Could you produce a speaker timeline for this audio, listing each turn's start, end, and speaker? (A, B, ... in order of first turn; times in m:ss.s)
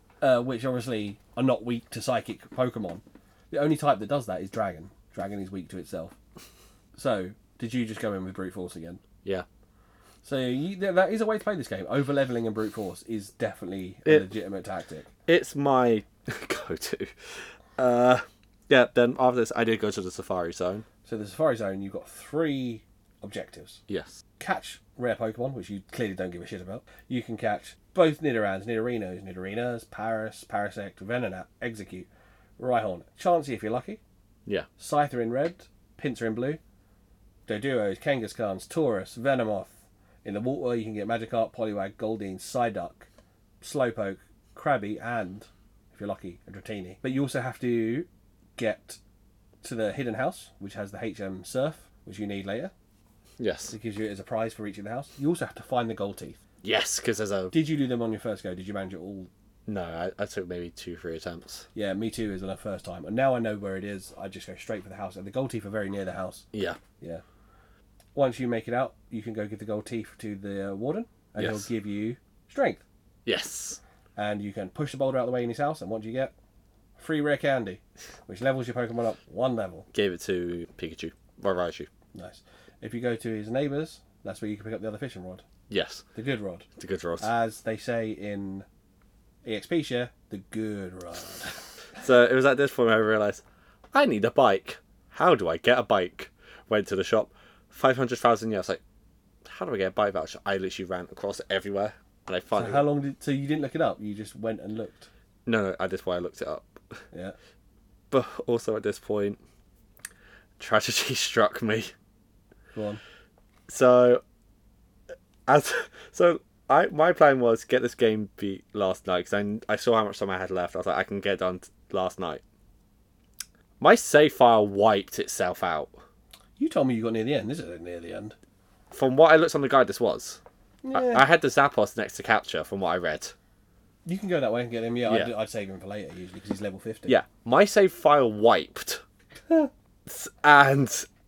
0:00.2-0:06.1 A
0:06.9-0:09.0 A
0:10.2-0:15.1 A
0:15.3-0:20.8 B
0:21.0-0:23.8 A
0:23.9-0:24.2 B
0:24.4-0:32.1 A
0:32.6-0:34.0 A
0:34.8-0:36.6 A
0:37.5-0:43.1 A
0:43.6-0:49.0 A
0:49.6-0:52.7 A
0:53.4-0:53.7 B
0:53.7-0:56.4 A
0:56.6-0:57.6 B
0:57.5-0:59.3 A
0:59.7-1:01.7 B
1:01.7-1:06.4 A
1:06.5-1:06.8 B
1:08.1-1:12.8 A
1:11.4-1:11.7 B
1:13.3-1:13.8 B
1:14.2-1:16.3 A
1:17.0-1:19.9 A
1:19.9-1:21.9 B
1:22.1-1:25.4 A
1:25.7-1:26.0 B
1:26.1-1:26.7 A
1:26.8-1:27.3 B
1:27.2-1:28.7 A
1:29.4-1:31.6 A
1:32.0-1:38.8 B
1:39.4-1:42.8 B
1:42.6-1:45.1 A
1:45.4-1:47.0 B
1:48.1-1:49.4 B
1:50.6-1:51.9 B
1:52.7-1:53.0 A
1:53.7-1:54.2 B
1:55.5-2:02.4 B
2:03.8-2:06.0 B
2:06.6-2:08.4 A
2:08.9-2:10.4 B
2:10.8-2:11.2 A
2:10.9-2:13.3 B
2:14.0-2:17.2 A
2:15.0-2:15.3 B
2:17.1-2:19.0 B
2:20.0-2:21.1 B